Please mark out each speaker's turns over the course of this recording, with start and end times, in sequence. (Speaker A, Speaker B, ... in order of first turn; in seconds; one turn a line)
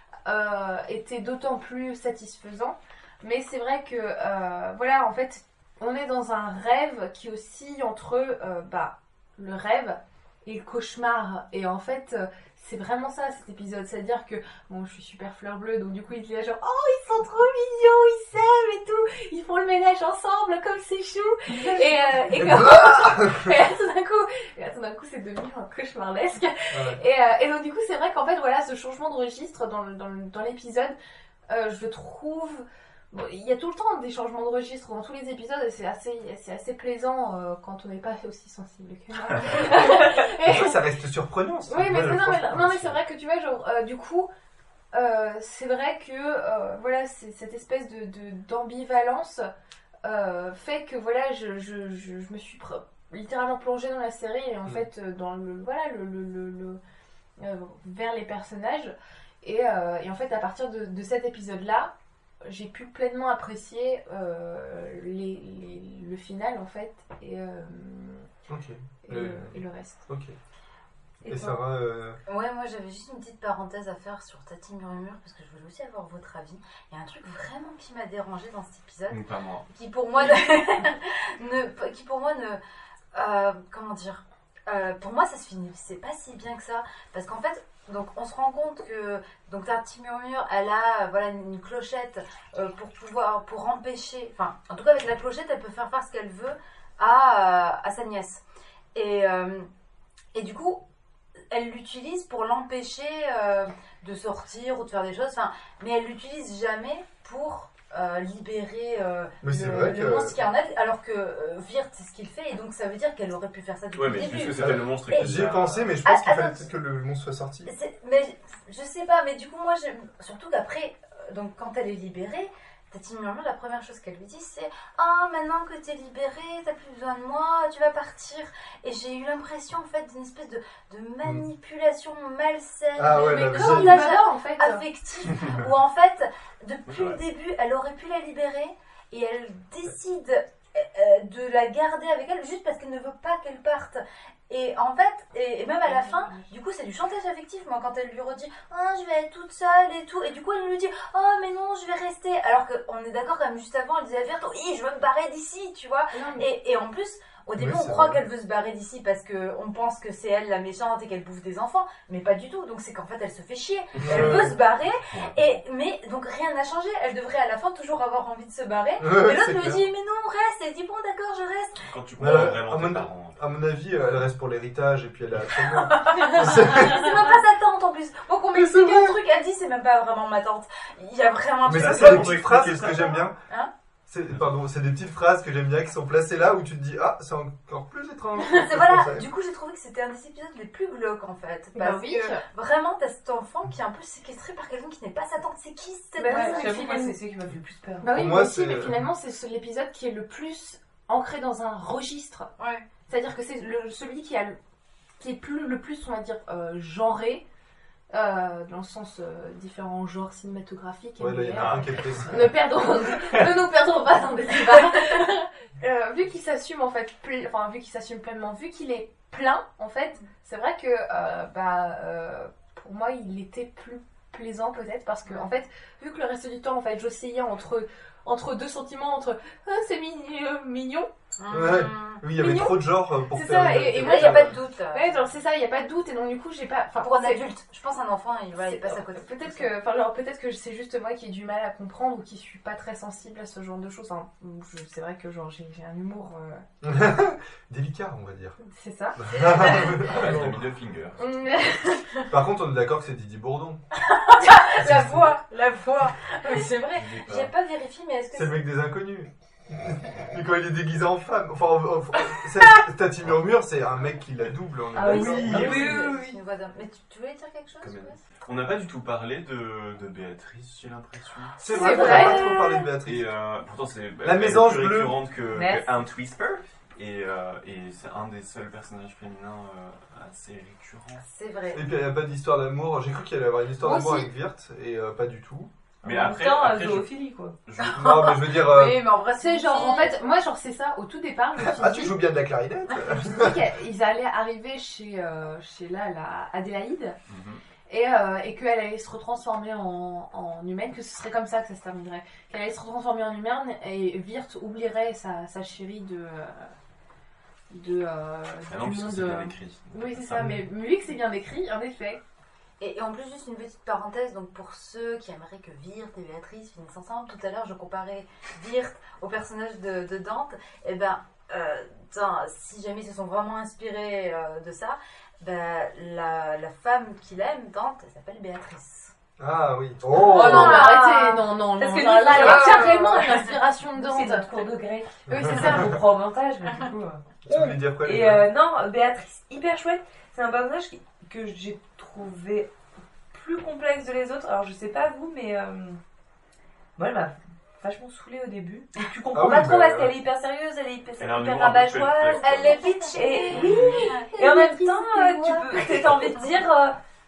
Speaker A: 0.3-31.0
Speaker B: 22.4-23.5
Speaker B: 26.7-27.0
Speaker A: 31.5-40.8
Speaker B: 39.6-43.0
Speaker A: 41.7-44.3
Speaker A: 44.9-49.5
Speaker A: 50.0-56.8
Speaker A: 57.4-61.9
Speaker A: 62.4-68.3
Speaker B: 68.5-70.3
Speaker A: 69.0-70.1
Speaker A: 71.2-71.6
Speaker B: 71.3-72.2
Speaker C: 72.3-82.6
Speaker D: 79.1-79.7
Speaker C: 83.1-98.4
Speaker C: 99.0-99.7
Speaker C: 100.3-100.8
Speaker C: 101.5-116.7
Speaker B: 109.4-110.4
Speaker D: 113.9-115.9
Speaker B: 114.5-117.7
Speaker C: 117.7-172.6
Speaker B: 133.0-134.0
Speaker A: 133.1-134.8
Speaker D: 136.9-137.2
Speaker A: 145.8-146.5
Speaker A: 156.1-156.5
Speaker B: 157.6-158.2
Speaker B: 164.0-164.6
Speaker D: 164.1-165.6
Speaker B: 169.0-169.8
Speaker D: 171.8-174.2
Speaker B: 172.2-177.1
Speaker C: 175.8-183.7
Speaker A: 176.2-177.0
Speaker B: 178.5-179.2
Speaker B: 181.6-183.4
Speaker D: 181.7-183.2
Speaker B: 184.1-189.3
Speaker C: 188.6-196.8
Speaker A: 191.8-192.4
Speaker A: 196.2-197.2
Speaker E: 196.2-198.4
Speaker A: 198.0-202.5
Speaker B: 198.1-199.1
Speaker C: 202.6-202.9
Speaker A: 203.1-204.6
Speaker A: 205.2-207.4
Speaker A: 208.1-211.8
Speaker B: 211.2-212.5
Speaker D: 211.6-212.3
Speaker A: 212.3-231.1
Speaker C: 231.4-232.8
Speaker B: 231.5-234.6
Speaker A: 233.3-237.4
Speaker C: 234.0-235.3
Speaker C: 237.0-239.7
Speaker A: 238.6-246.6
Speaker B: 246.8-248.6
Speaker A: 248.7-250.0
Speaker B: 249.2-250.6
Speaker D: 250.1-251.6
Speaker A: 251.2-251.9
Speaker B: 252.3-253.8
Speaker C: 254.0-258.6
Speaker B: 254.8-255.3
Speaker D: 256.9-257.5
Speaker B: 258.3-266.1
Speaker E: 264.9-266.4
Speaker D: 265.0-265.9
Speaker C: 265.1-268.2
Speaker D: 267.8-272.2
Speaker A: 271.6-272.7
Speaker B: 271.6-273.3
Speaker E: 271.8-272.7
Speaker D: 273.1-281.2
Speaker B: 274.2-275.2
Speaker E: 275.5-276.1
Speaker C: 281.3-281.8
Speaker B: 281.7-285.7
Speaker A: 283.8-284.3
Speaker D: 286.0-287.1
Speaker E: 286.0-287.6
Speaker D: 287.7-288.1
Speaker C: 287.8-290.2
Speaker B: 288.0-289.1
Speaker A: 289.4-292.2
Speaker B: 291.6-293.6
Speaker A: 293.1-297.2
Speaker D: 297.3-297.6
Speaker A: 297.9-306.7
Speaker A: 307.7-312.2
Speaker D: 308.7-310.5
Speaker B: 310.4-310.6
Speaker C: 312.8-329.1
Speaker B: 329.4-330.9
Speaker E: 330.1-333.3
Speaker A: 330.2-334.5
Speaker C: 330.4-331.1
Speaker C: 332.3-333.5
Speaker E: 333.9-342.7
Speaker B: 335.3-335.9
Speaker A: 335.3-335.8
Speaker B: 337.4-338.5
Speaker E: 343.3-346.0
Speaker E: 347.0-357.0
Speaker B: 349.3-350.1
Speaker D: 351.2-352.9
Speaker C: 352.4-354.2
Speaker D: 353.5-354.1
Speaker A: 354.2-355.8
Speaker C: 355.8-356.4